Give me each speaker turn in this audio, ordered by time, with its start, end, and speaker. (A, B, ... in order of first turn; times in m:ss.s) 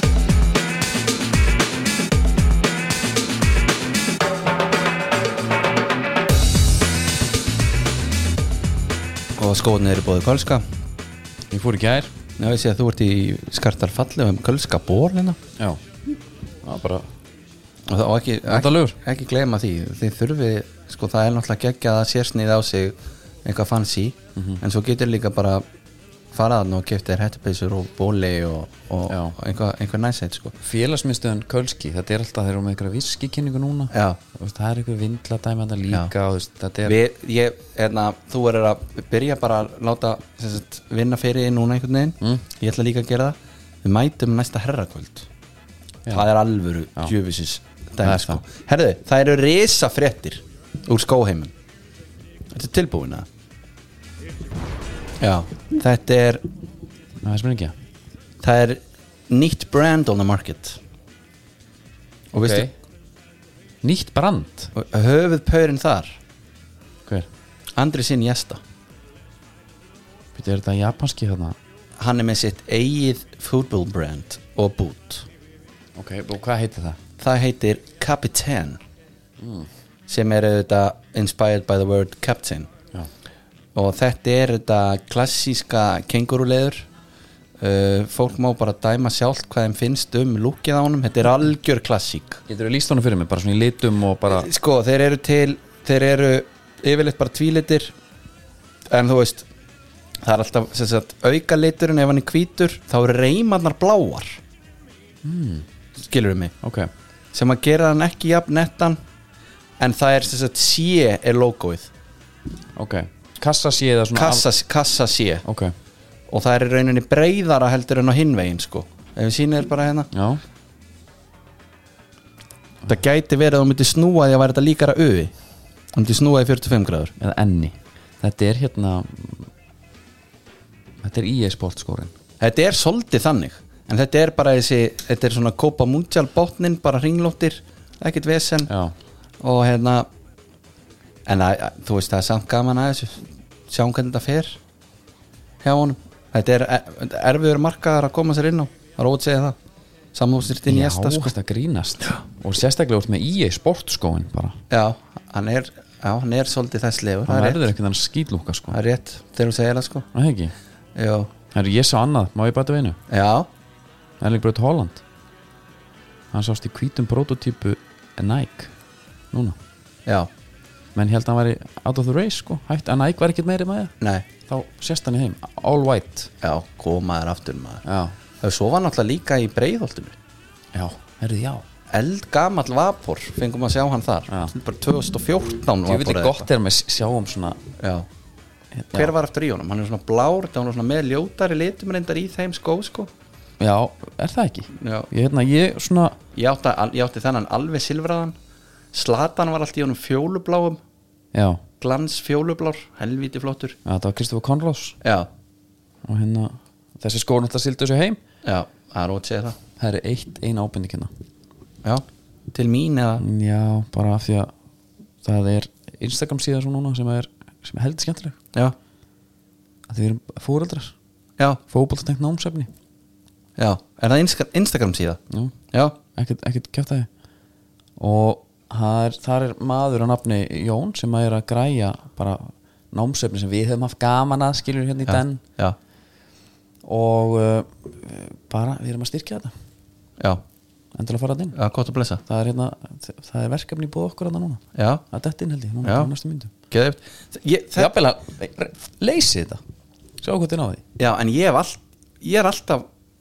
0:09.4-0:10.6 A
0:11.5-0:12.1 B
0:12.4-0:15.4 A
0:16.6-0:17.1 B
0:17.9-0:25.6 A
0:18.5-0:19.0 B
0:24.4-0:24.6 B
0:26.3-0:30.6 A
0:29.1-0:29.4 B
0:30.6-0:37.0 B
0:33.9-0:34.2 A
0:36.8-0:45.3 A
0:46.1-0:51.5 A
0:48.0-0:48.4 B
0:52.5-0:53.3 A
0:55.2-0:56.4 A
0:57.2-0:57.7 B
0:58.4-1:00.8 A
1:02.3-1:02.7 A
1:02.3-1:02.7 B
1:03.8-1:04.7 B
1:04.7-1:06.2 A
1:07.8-1:08.6 A
1:10.4-1:11.6 B
1:12.0-1:15.3 A
1:16.0-1:17.0 B
1:17.2-1:18.8 A
1:19.4-1:19.7 B
1:20.1-1:22.7 A
1:23.8-1:26.9 A
1:27.6-1:32.4 A
1:32.5-1:34.5 B
1:34.3-1:38.0 A
1:38.9-1:39.5 A
1:40.2-1:44.4 A
1:45.2-1:45.7 B
1:46.0-1:46.5 A
1:46.6-1:46.9 B
1:47.3-1:49.0 A
1:49.8-1:51.9 A
1:52.8-1:54.5 B
1:54.2-1:55.4 A
1:55.4-1:55.7 B
1:56.3-2:00.1 A
2:00.1-2:00.4 B
2:02.9-2:05.3 A
2:05.9-2:07.1 A
2:07.2-2:09.5 B
2:11.0-2:12.1 B
2:12.4-2:18.7 A
2:18.7-2:19.0 B
2:19.4-2:20.1 A
2:21.3-2:24.6 A
2:25.6-2:29.6 A
2:30.1-2:31.3 A
2:30.7-2:34.6 B
2:34.7-2:37.6 A
2:37.3-2:38.8 B
2:38.7-2:40.1 A
2:40.1-2:40.5 B
2:41.0-2:41.3 A
2:41.5-2:43.0 B
2:43.1-2:43.5 A
2:44.2-2:45.0 B
2:46.3-2:48.7 B
2:49.3-2:49.6 B
2:51.0-2:53.9 B
2:54.0-2:54.3 A
2:54.5-2:56.3 B
2:56.4-2:57.8 A
2:57.8-2:58.2 B
2:58.4-3:00.2 A
3:00.7-3:01.6 B
3:01.9-3:06.5 A
3:05.8-3:07.6 B
3:07.8-3:08.1 A
3:08.7-3:09.1 B
3:08.9-3:13.1 A
3:13.6-3:16.2 B
3:14.8-3:15.1 A
3:16.3-3:18.4 A
3:18.9-3:20.8 A
3:21.3-3:21.6 B
3:21.8-3:23.8 A
3:23.8-3:25.0 B
3:25.0-3:25.3 A
3:26.0-3:28.2 B
3:28.4-3:29.6 A
3:29.8-3:31.1 B
3:31.8-3:33.2 A
3:33.2-3:34.5 B
3:35.2-3:38.4 B
3:39.9-3:40.9 B
3:41.7-3:42.7 B
3:43.6-3:45.2 A
3:45.7-3:46.0 A
3:46.2-3:47.1 B
3:48.0-3:55.4 B
3:55.1-3:55.8 A
3:56.8-3:59.5 B
4:00.9-4:01.6 B
4:01.6-4:02.2 A
4:02.3-4:06.5 B
4:04.8-4:05.0 A
4:05.8-4:06.1 A
4:06.7-4:07.9 A
4:07.8-4:09.6 B
4:10.2-4:10.8 B
4:11.0-4:12.9 A